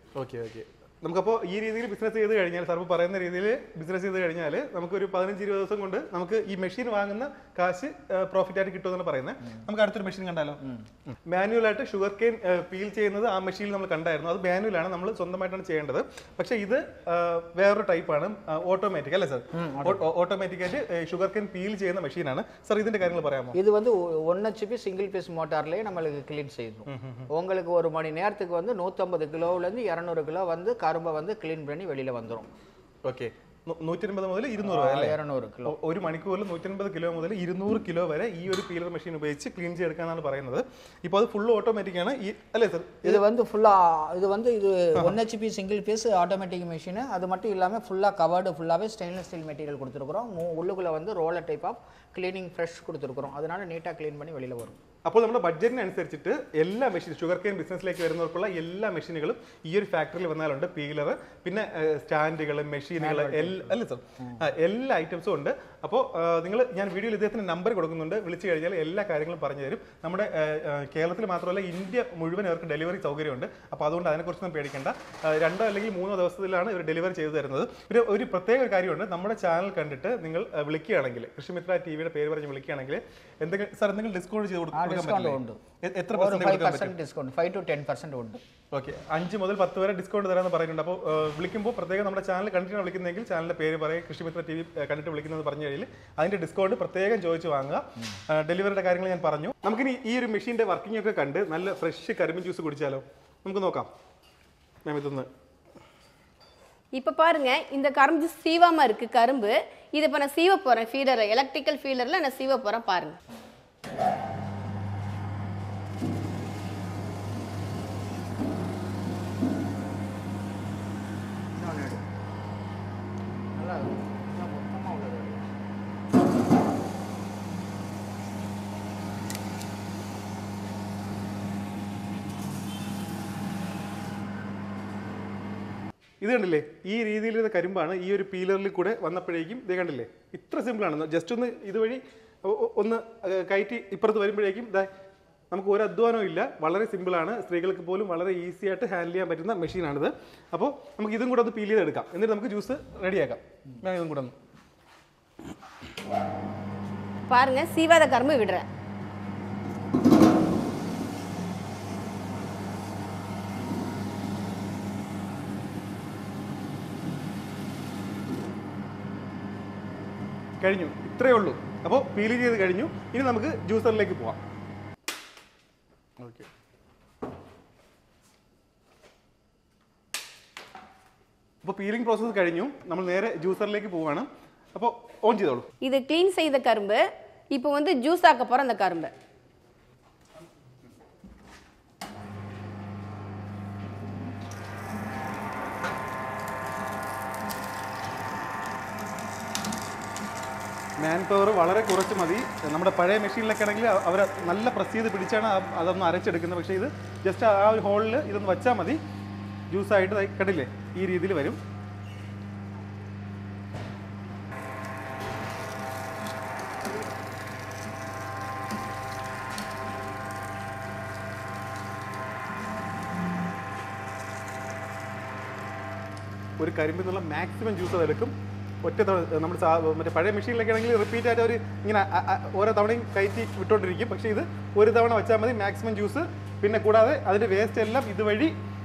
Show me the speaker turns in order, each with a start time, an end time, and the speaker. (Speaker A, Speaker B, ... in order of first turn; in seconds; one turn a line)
Speaker A: 0.1-10.6
Speaker A: 11.3-23.6
Speaker B: 19.5-20.0
Speaker B: 23.5-32.5
Speaker A: 26.9-27.3
Speaker A: 33.0-43.2
Speaker B: 34.6-35.8
Speaker B: 43.0-54.8
Speaker A: 55.0-86.9
Speaker B: 63.0-63.8
Speaker B: 84.7-85.6
Speaker B: 86.1-88.4
Speaker A: 88.7-103.9
Speaker A: 104.8-105.3
Speaker C: 106.9-113.2
Speaker B: 121.5-122.0
Speaker B: 123.5-125.5
Speaker A: 136.2-144.9
Speaker A: 145.5-154.3
Speaker C: 157.3-158.7
Speaker A: 170.6-174.4
Speaker A: 176.2-176.5
Speaker A: 181.6-185.7
Speaker C: 185.8-189.1
Speaker A: 201.0-209.0
Speaker A: 209.7-211.6
Speaker A: 226.6-238.5